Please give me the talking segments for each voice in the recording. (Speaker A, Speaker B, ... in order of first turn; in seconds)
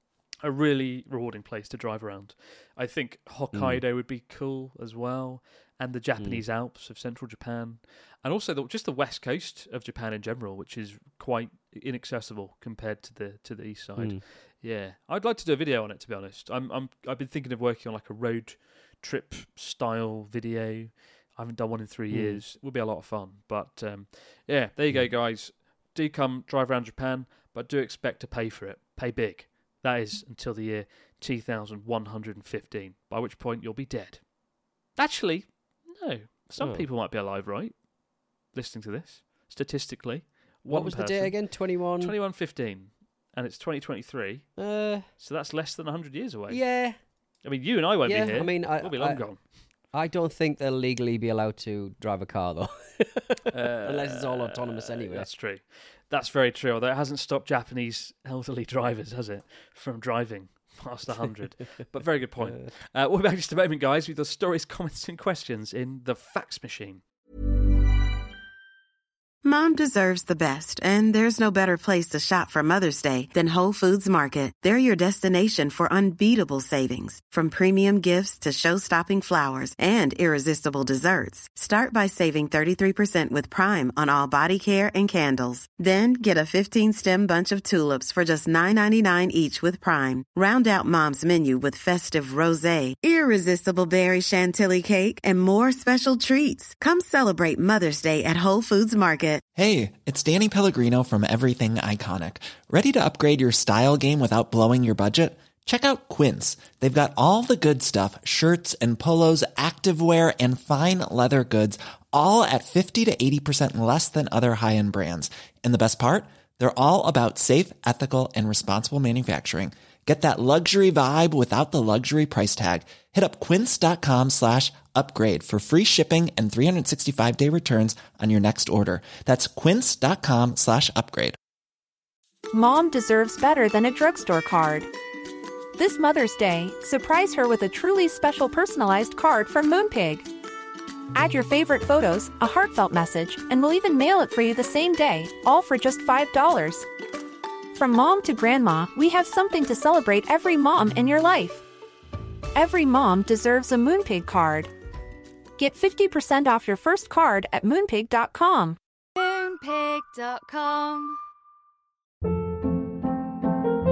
Speaker A: 0.4-34.3, 35.0-37.8, 38.5-41.4, 42.0-44.5, 45.2-46.7, 47.4-49.4, 53.5-67.0
Speaker B: 3.5-3.8, 6.2-6.4, 14.0-14.2, 22.1-22.4, 36.6-36.9, 40.7-42.1, 44.6-45.0, 46.5-47.0, 48.0-49.2, 49.8-55.3
Speaker C: 69.4-99.4
Speaker D: 99.5-131.3
Speaker E: 132.5-134.9, 135.8-140.3, 141.1-146.8, 147.7-151.6, 152.5-154.7, 155.6-158.8
Speaker F: 159.2-161.2